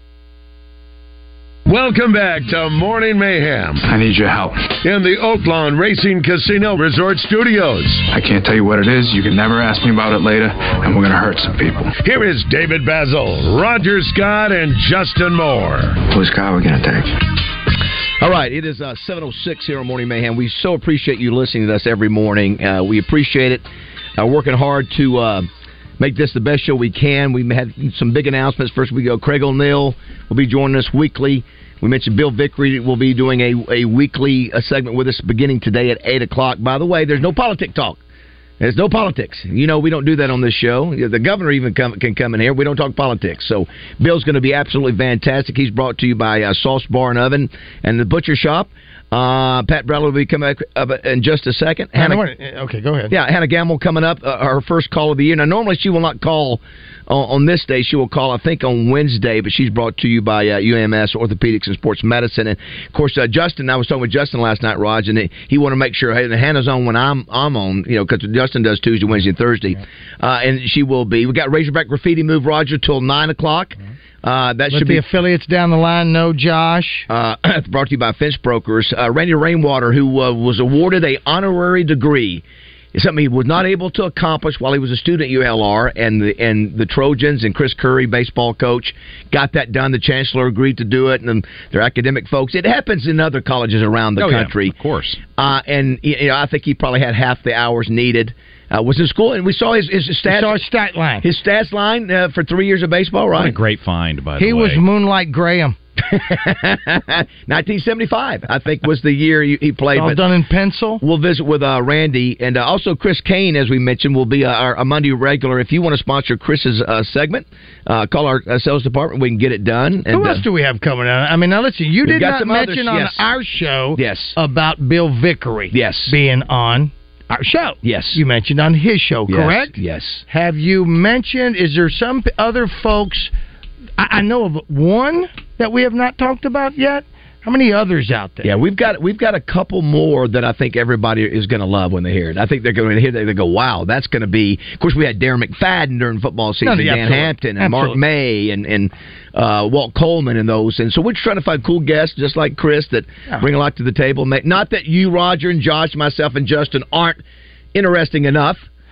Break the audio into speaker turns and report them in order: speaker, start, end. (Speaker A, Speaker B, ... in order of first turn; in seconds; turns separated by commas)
Speaker A: 1.7-3.9, Speaker B: 3.8-4.7, Speaker A: 4.7-8.1, Speaker B: 8.1-11.9, Speaker A: 12.0-16.0, Speaker B: 16.0-17.1, Speaker C: 18.2-23.6, Speaker C: 24.2-25.5, Speaker C: 26.0-38.0, Speaker C: 38.6-52.2, Speaker D: 52.0-53.1, Speaker C: 53.1-75.0, Speaker D: 74.7-77.1, Speaker C: 77.1-94.7, Speaker E: 94.2-95.2, Speaker C: 95.4-100.6, Speaker D: 100.2-101.2, Speaker C: 101.2-103.6, Speaker E: 103.3-104.8, Speaker D: 104.4-105.8, Speaker C: 106.0-110.2, Speaker D: 109.9-111.0, Speaker C: 111.0-120.4, Speaker D: 120.1-133.3, Speaker C: 122.0-123.3, Speaker C: 123.9-124.4, Speaker C: 125.7-126.2, Speaker C: 127.8-128.2, Speaker C: 129.3-130.2, Speaker D: 134.0-138.5, Speaker C: 138.4-157.2, Speaker D: 146.6-148.0, Speaker C: 157.7-158.7